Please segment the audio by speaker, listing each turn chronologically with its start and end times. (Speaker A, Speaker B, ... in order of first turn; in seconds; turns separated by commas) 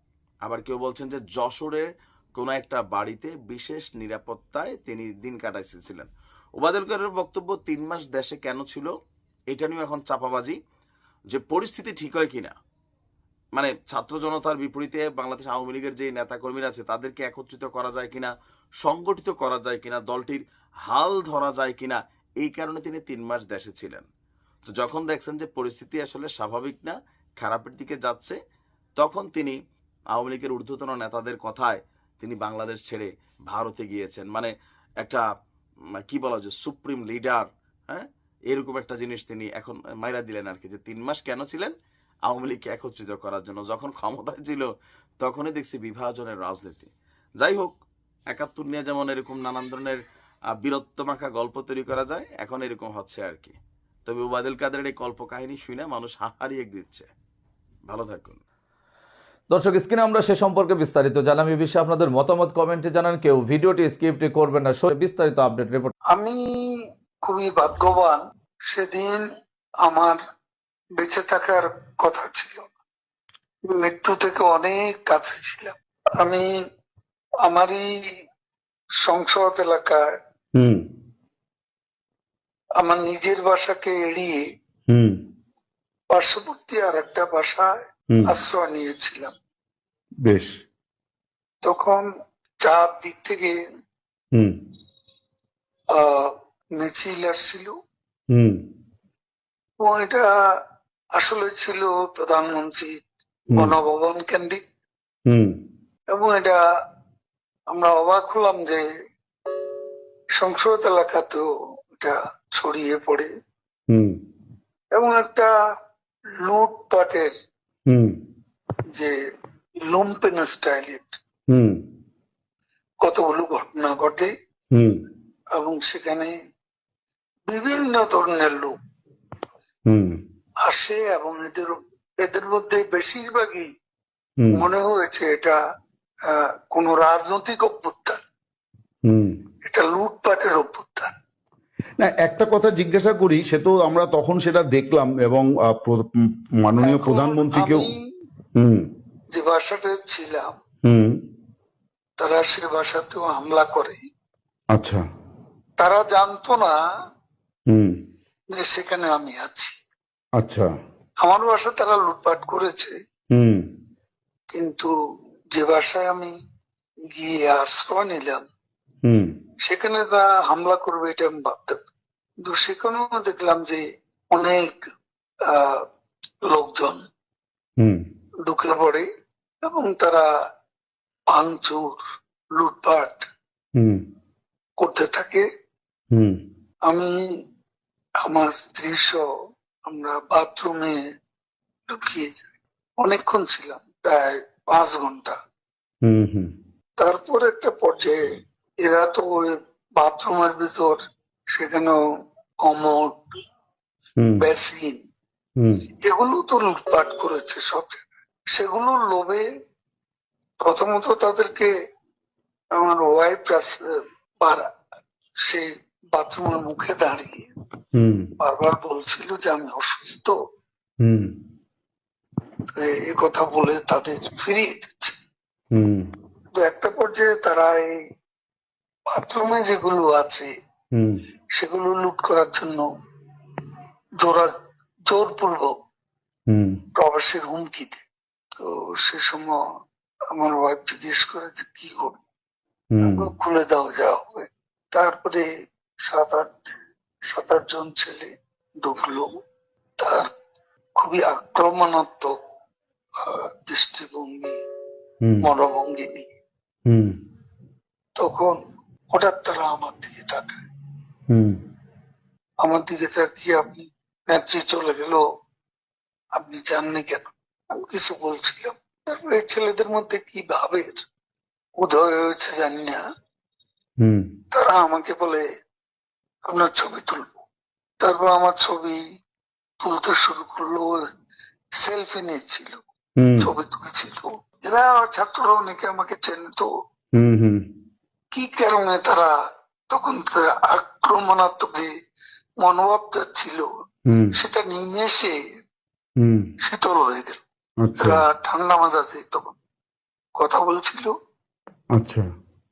Speaker A: 0.4-8.9, Speaker A: 9.5-10.6, Speaker A: 11.3-12.5, Speaker A: 13.6-24.1, Speaker A: 24.6-28.4, Speaker A: 29.0-29.6, Speaker A: 30.1-35.2, Speaker A: 36.0-41.7, Speaker A: 42.3-44.7, Speaker A: 45.2-47.8, Speaker A: 48.3-50.0, Speaker A: 50.5-57.1, Speaker A: 57.8-58.4, Speaker B: 59.5-65.9, Speaker C: 66.1-69.2, Speaker C: 69.8-70.2, Speaker C: 71.0-72.7, Speaker C: 73.7-76.5, Speaker C: 77.4-77.9, Speaker C: 79.0-80.0, Speaker D: 80.5-80.8, Speaker C: 82.8-84.4, Speaker D: 84.9-85.2, Speaker C: 86.1-87.7, Speaker C: 88.2-89.3, Speaker D: 90.2-90.6, Speaker C: 91.6-92.0, Speaker C: 92.6-93.5, Speaker C: 95.9-97.7, Speaker D: 98.3-98.6, Speaker C: 99.8-100.2, Speaker C: 101.2-102.9, Speaker C: 103.5-104.6, Speaker D: 105.3-105.6, Speaker C: 106.1-106.6, Speaker C: 107.7-108.8, Speaker C: 110.3-113.3, Speaker D: 113.9-114.2, Speaker C: 114.9-115.5, Speaker C: 116.4-117.3, Speaker D: 117.9-118.2, Speaker C: 119.9-121.2, Speaker D: 121.5-121.8, Speaker C: 123.0-124.3, Speaker D: 124.7-125.0, Speaker C: 125.5-126.3, Speaker C: 127.5-128.7, Speaker D: 129.9-130.2, Speaker C: 130.7-133.7, Speaker D: 134.4-134.7, Speaker C: 134.5-135.6, Speaker C: 136.3-138.2, Speaker D: 139.0-139.4, Speaker C: 139.7-141.1, Speaker D: 142.0-147.9, Speaker C: 146.8-148.0, Speaker D: 148.6-148.9, Speaker C: 149.3-150.5, Speaker D: 150.8-151.2, Speaker C: 152.2-154.0, Speaker D: 154.7-155.0, Speaker C: 155.8-156.8, Speaker D: 157.7-158.0, Speaker C: 158.5-159.8, Speaker D: 160.4-160.7, Speaker C: 161.2-162.9, Speaker D: 163.3-163.7, Speaker C: 164.5-164.9, Speaker C: 165.5-166.3, Speaker C: 167.1-168.5, Speaker D: 169.1-169.3, Speaker C: 169.6-171.8, Speaker C: 172.4-174.8, Speaker C: 175.5-175.8, Speaker C: 176.5-177.0, Speaker C: 178.4-179.1, Speaker C: 179.6-180.2, Speaker C: 181.3-182.0, Speaker C: 182.6-183.2, Speaker D: 183.8-184.0, Speaker C: 184.8-185.4, Speaker D: 186.1-186.4, Speaker C: 188.3-189.2, Speaker C: 189.9-191.0, Speaker C: 191.9-195.3, Speaker D: 196.0-196.5, Speaker C: 197.0-198.2, Speaker C: 198.8-201.0, Speaker C: 201.5-201.9, Speaker C: 202.6-203.2, Speaker D: 204.2-204.4, Speaker C: 204.4-205.0, Speaker C: 206.0-209.4, Speaker C: 210.6-211.7, Speaker C: 212.8-213.8, Speaker C: 215.4-217.4, Speaker D: 217.9-218.3, Speaker C: 218.4-220.3, Speaker D: 221.0-221.3, Speaker C: 222.7-225.2, Speaker D: 225.7-226.1, Speaker C: 226.6-227.9, Speaker C: 229.1-230.5, Speaker D: 230.9-231.2, Speaker C: 231.6-232.8, Speaker C: 234.2-234.5, Speaker C: 235.1-235.7, Speaker D: 236.5-236.8, Speaker C: 236.9-238.0, Speaker C: 238.6-239.6, Speaker C: 240.3-242.2, Speaker D: 242.9-243.3, Speaker C: 243.0-245.4, Speaker C: 246.0-246.7, Speaker C: 247.3-248.3, Speaker C: 248.8-249.3, Speaker C: 250.0-250.3, Speaker C: 251.0-252.3, Speaker C: 253.2-254.6, Speaker D: 255.2-255.5, Speaker C: 255.4-256.3, Speaker D: 256.9-257.2, Speaker C: 258.2-258.6, Speaker C: 259.1-260.6, Speaker D: 261.3-261.6, Speaker C: 262.6-265.2, Speaker C: 266.3-271.1, Speaker C: 271.8-273.0, Speaker D: 274.0-274.3, Speaker C: 274.5-275.4, Speaker C: 276.5-277.4, Speaker C: 278.0-279.0, Speaker C: 279.8-281.0, Speaker C: 281.8-282.8, Speaker D: 283.2-283.5, Speaker C: 283.4-286.7, Speaker D: 287.1-287.6, Speaker C: 288.3-289.3, Speaker C: 289.9-291.9, Speaker C: 292.6-293.7, Speaker D: 294.1-294.3, Speaker C: 294.3-295.4, Speaker D: 296.2-296.5, Speaker C: 296.6-297.4, Speaker D: 297.8-298.2, Speaker C: 298.0-299.6, Speaker C: 300.4-301.1, Speaker D: 301.9-302.3